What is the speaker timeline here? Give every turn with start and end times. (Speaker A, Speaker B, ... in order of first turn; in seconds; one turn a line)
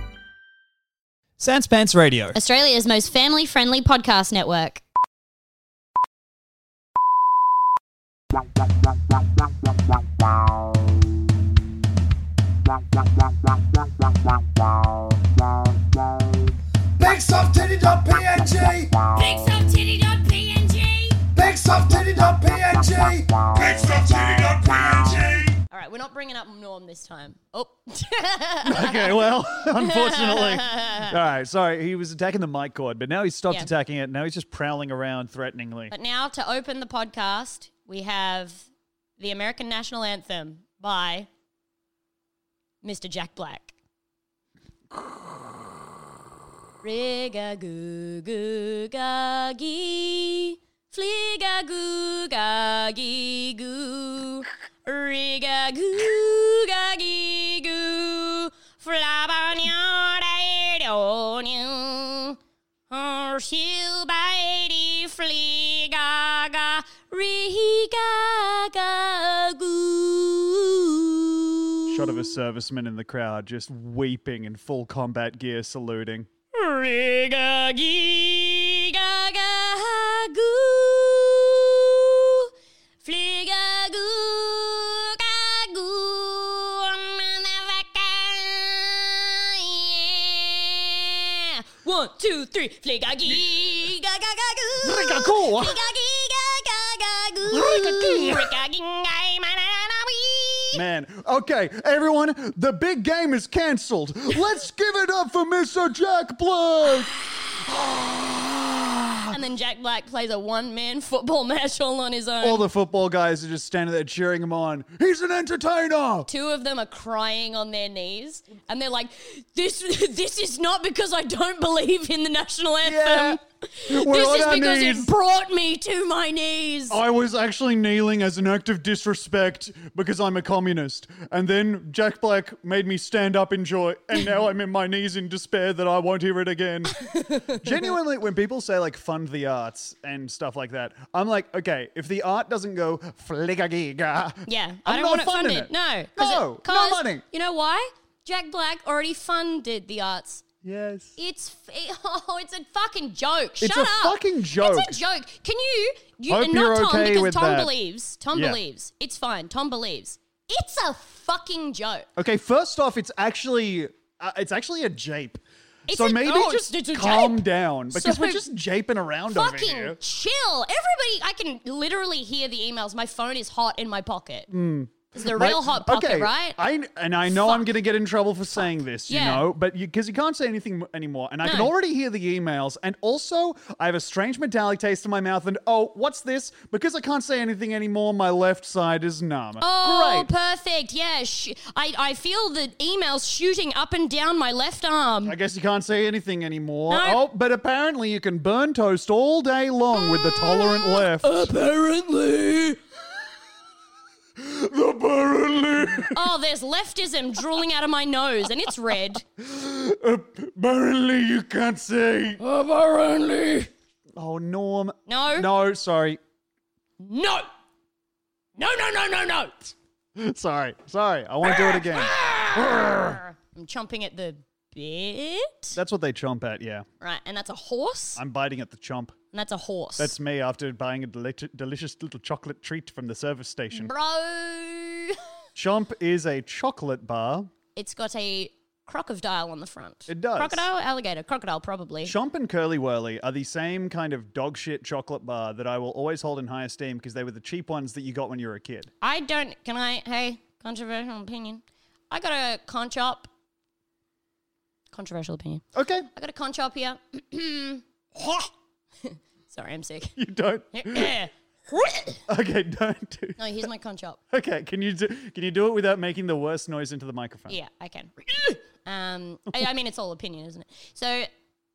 Speaker A: 1.4-2.4
Speaker B: 2.3-4.8
Speaker C: 17.0-19.0
Speaker B: 19.2-21.2
Speaker C: 21.4-25.6
Speaker B: 25.7-31.2
Speaker A: 28.6-35.9
Speaker B: 35.9-38.7
Speaker B: 39.2-41.3
Speaker B: 42.8-43.8
Speaker B: 46.8-62.4
Speaker B: 62.9-72.3
Speaker A: 71.9-76.3
Speaker B: 76.5-82.5
Speaker B: 83.0-100.8
Speaker A: 94.8-95.8
Speaker A: 97.5-98.5
Speaker A: 100.7-109.4
Speaker B: 109.3-112.7
Speaker A: 112.4-116.3
Speaker B: 116.3-127.0
Speaker A: 122.8-125.1
Speaker A: 126.9-137.0
Speaker B: 137.0-137.9
Speaker A: 137.5-147.2
Speaker B: 144.5-150.4
Speaker A: 150.6-151.2
Speaker B: 151.2-162.1
Speaker A: 153.6-155.0
Speaker A: 156.3-157.7
Speaker A: 158.3-158.6
Speaker A: 162.2-170.0
Speaker B: 165.9-168.5
Speaker B: 169.3-174.5
Speaker A: 174.5-190.3
Speaker B: 175.1-176.6
Speaker B: 177.2-177.7
Speaker B: 179.1-179.4
Speaker B: 181.4-181.7
Speaker B: 189.6-195.4
Speaker A: 195.2-201.5
Speaker B: 196.9-197.2
Speaker B: 199.9-202.8
Speaker A: 204.4-206.2
Speaker B: 206.1-209.2
Speaker A: 209.4-212.4
Speaker B: 212.4-213.7
Speaker A: 214.2-216.2
Speaker B: 215.1-215.5
Speaker B: 217.0-217.5
Speaker B: 218.6-219.7
Speaker A: 220.2-223.2
Speaker B: 221.4-225.8
Speaker A: 225.8-226.9
Speaker B: 227.0-228.2
Speaker A: 228.2-229.2
Speaker B: 229.3-230.2
Speaker A: 230.0-233.9
Speaker B: 233.7-235.2
Speaker A: 235.6-237.5
Speaker B: 237.8-242.2
Speaker A: 240.1-240.7
Speaker A: 242.0-248.9
Speaker B: 249.0-253.3
Speaker B: 254.9-255.6
Speaker A: 255.8-256.1
Speaker B: 256.1-258.5
Speaker B: 259.0-260.2
Speaker A: 260.2-261.1
Speaker B: 260.7-262.2
Speaker A: 262.3-263.4
Speaker B: 263.4-264.2
Speaker A: 264.3-267.6
Speaker B: 267.5-271.3